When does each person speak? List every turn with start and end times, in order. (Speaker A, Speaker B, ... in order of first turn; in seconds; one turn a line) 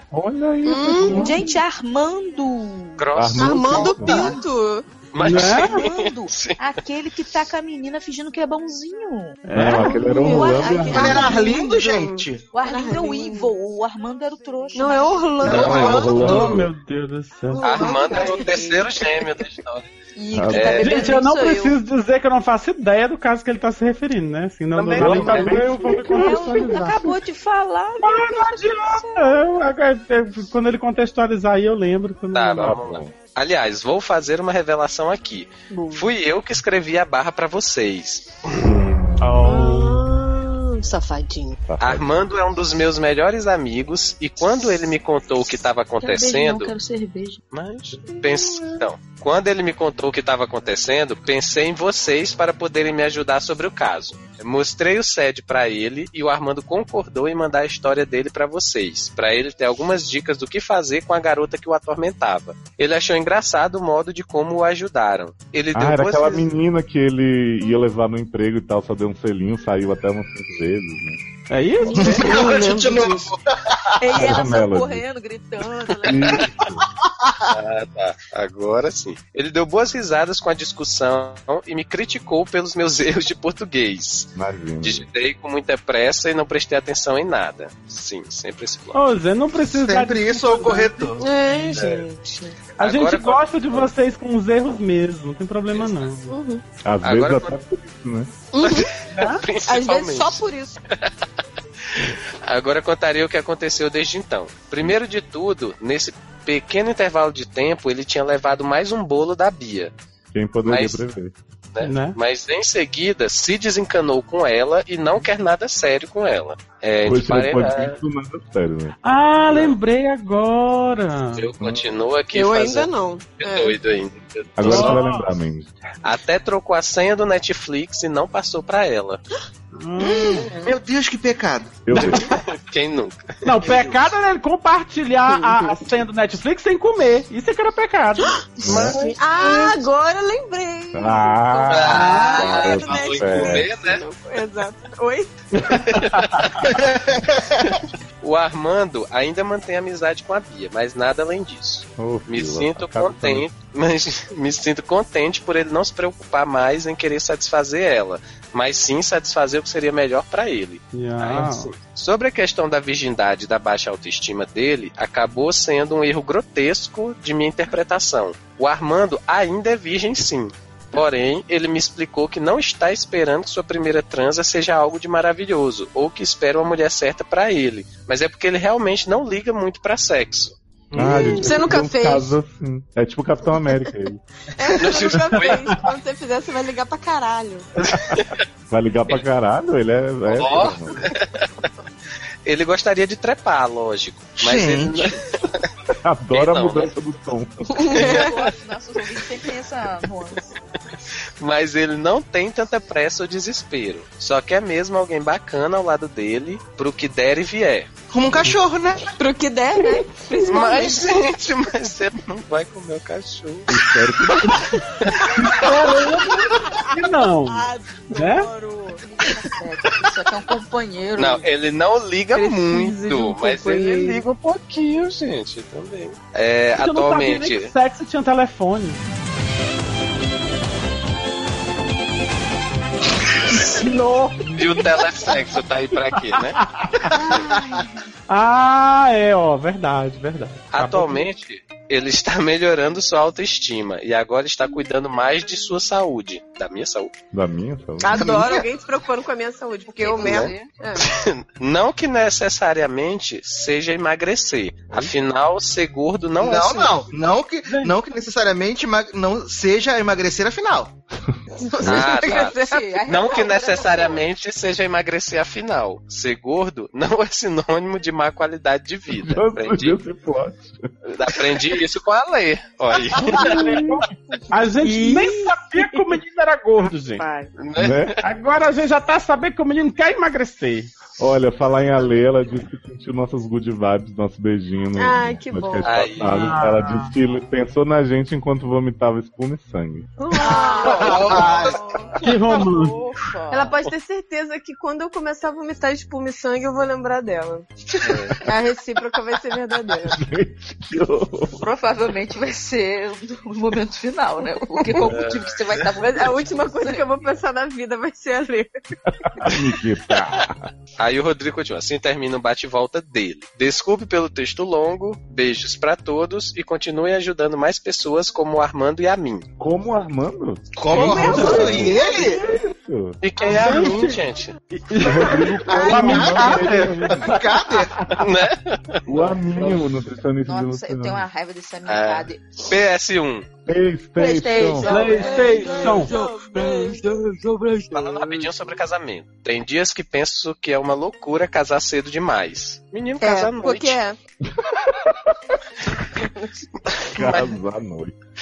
Speaker A: 0.1-1.4
Speaker B: 0.7-1.5
Speaker C: 1.1-3.1
Speaker D: 3.0-3.9
Speaker A: 3.1-4.4
Speaker B: 3.4-4.8
Speaker C: 3.8-4.4
Speaker D: 5.1-6.6
Speaker E: 5.2-5.8
Speaker C: 5.4-11.3
Speaker E: 9.4-10.1
Speaker A: 9.5-11.3
Speaker B: 9.6-13.5
Speaker F: 10.9-12.5
Speaker C: 12.5-15.8
Speaker B: 14.8-16.3
Speaker F: 15.4-16.6
Speaker A: 15.4-16.7
Speaker E: 16.1-17.6
Speaker B: 17.5-19.3
Speaker D: 17.6-19.9
Speaker C: 17.7-18.6
Speaker C: 20.2-21.8
Speaker A: 20.3-20.8
Speaker D: 20.5-21.0
Speaker E: 20.8-27.1
Speaker D: 24.8-25.6
Speaker A: 25.0-26.8
Speaker C: 26.0-29.4
Speaker E: 28.0-32.8
Speaker D: 32.3-38.4
Speaker A: 32.6-33.1
Speaker B: 35.7-36.1
Speaker A: 38.6-39.4
Speaker E: 39.2-40.0
Speaker B: 39.4-41.6
Speaker A: 41.7-42.2
Speaker D: 41.8-46.8
Speaker C: 46.0-47.4
Speaker D: 47.5-66.5
Speaker B: 48.5-48.7
Speaker A: 65.7-71.2
Speaker E: 71.5-72.5
Speaker F: 72.0-73.8
Speaker B: 72.0-73.3
Speaker C: 74.0-76.4
Speaker A: 74.1-75.0
Speaker A: 76.0-76.8
Speaker D: 77.5-84.3
Speaker A: 84.4-85.1
Speaker D: 84.8-89.0
Speaker E: 88.9-91.1
Speaker F: 89.7-91.3
Speaker B: 91.2-92.6
Speaker D: 91.7-92.0
Speaker D: 92.8-93.9
Speaker E: 92.8-96.3
Speaker B: 96.3-96.6
Speaker A: 96.8-98.3
Speaker D: 97.0-97.5
Speaker B: 98.5-98.9
Speaker D: 98.6-100.4
Speaker E: 99.1-99.4
Speaker B: 99.7-100.8
Speaker D: 102.0-109.9
Speaker A: 110.3-111.3
Speaker D: 110.7-111.0
Speaker D: 111.7-118.0
Speaker E: 111.8-112.2
Speaker A: 117.0-119.0
Speaker E: 119.0-121.5
Speaker D: 121.4-125.0
Speaker A: 121.6-121.9
Speaker B: 122.3-123.8
Speaker A: 124.6-125.7
Speaker E: 124.7-125.3
Speaker D: 126.0-129.2
Speaker E: 129.8-130.5
Speaker F: 130.0-131.8
Speaker A: 131.9-132.3
Speaker D: 132.0-133.3
Speaker E: 133.4-139.6
Speaker B: 135.3-135.8
Speaker A: 138.6-139.1
Speaker D: 138.7-139.0
Speaker B: 138.7-145.4
Speaker A: 140.9-143.7
Speaker D: 141.7-144.0
Speaker E: 141.9-142.4
Speaker E: 145.5-146.6
Speaker D: 145.8-146.7
Speaker F: 146.7-147.6
Speaker D: 147.6-180.6
Speaker A: 152.0-153.5
Speaker E: 160.9-161.7
Speaker E: 180.9-181.5
Speaker A: 180.9-184.2
Speaker B: 181.0-182.3
Speaker B: 184.6-187.7
Speaker D: 184.8-185.7
Speaker A: 187.9-191.1
Speaker D: 188.0-188.4
Speaker D: 190.3-191.4
Speaker D: 192.5-195.7
Speaker F: 194.4-195.2
Speaker A: 196.0-198.1
Speaker D: 196.3-196.9
Speaker B: 197.7-198.4
Speaker C: 197.9-200.5
Speaker D: 197.9-198.5
Speaker D: 201.4-207.9
Speaker F: 208.1-209.1
Speaker B: 209.2-211.2
Speaker D: 210.4-213.7
Speaker A: 213.7-214.8
Speaker E: 215.4-218.5
Speaker B: 216.6-219.1
Speaker C: 219.1-221.5
Speaker D: 221.2-227.7
Speaker B: 222.3-224.2
Speaker E: 226.8-229.0
Speaker E: 233.5-234.8
Speaker D: 234.5-236.6
Speaker E: 236.4-237.2
Speaker E: 238.3-241.3
Speaker D: 240.7-247.1
Speaker A: 247.3-248.2
Speaker B: 248.0-251.1
Speaker F: 248.1-248.7
Speaker C: 249.9-250.7
Speaker D: 250.2-257.0
Speaker F: 256.4-260.9
Speaker E: 257.7-257.9
Speaker B: 261.6-262.9
Speaker D: 261.8-270.0
Speaker C: 261.9-264.2
Speaker A: 269.1-270.9
Speaker D: 271.1-273.5
Speaker E: 273.2-277.2
Speaker B: 273.4-276.1
Speaker A: 273.5-274.0
Speaker B: 277.1-277.5
Speaker D: 277.6-278.2
Speaker A: 277.8-278.2
Speaker E: 278.2-280.9
Speaker A: 281.2-290.1
Speaker B: 285.0-286.1
Speaker D: 285.8-286.6
Speaker E: 286.3-287.1
Speaker B: 290.2-292.1
Speaker C: 290.4-293.8
Speaker D: 290.9-291.8
Speaker F: 291.3-291.8
Speaker E: 292.2-293.0
Speaker B: 293.5-297.7
Speaker D: 298.0-298.4
Speaker B: 298.4-300.2
Speaker A: 300.1-301.7
Speaker C: 301.6-307.1
Speaker B: 304.8-305.1
Speaker D: 305.1-305.8
Speaker B: 306.0-308.7
Speaker A: 309.2-310.7
Speaker D: 311.0-319.5
Speaker A: 319.6-323.2
Speaker F: 320.8-322.4
Speaker B: 321.0-321.9
Speaker E: 321.2-321.9
Speaker D: 323.2-324.6
Speaker E: 323.4-324.2
Speaker E: 324.7-327.5
Speaker A: 325.0-327.4
Speaker B: 325.1-326.5
Speaker F: 325.7-328.1
Speaker D: 328.2-329.0
Speaker A: 329.1-331.3
Speaker C: 330.4-332.6
Speaker D: 331.9-333.5
Speaker A: 333.7-334.9
Speaker C: 334.2-336.4
Speaker E: 334.9-336.1
Speaker B: 334.9-337.0
Speaker D: 337.9-344.0
Speaker B: 343.2-344.2
Speaker A: 344.5-345.4
Speaker B: 346.2-346.5
Speaker D: 346.9-347.6
Speaker A: 347.1-348.1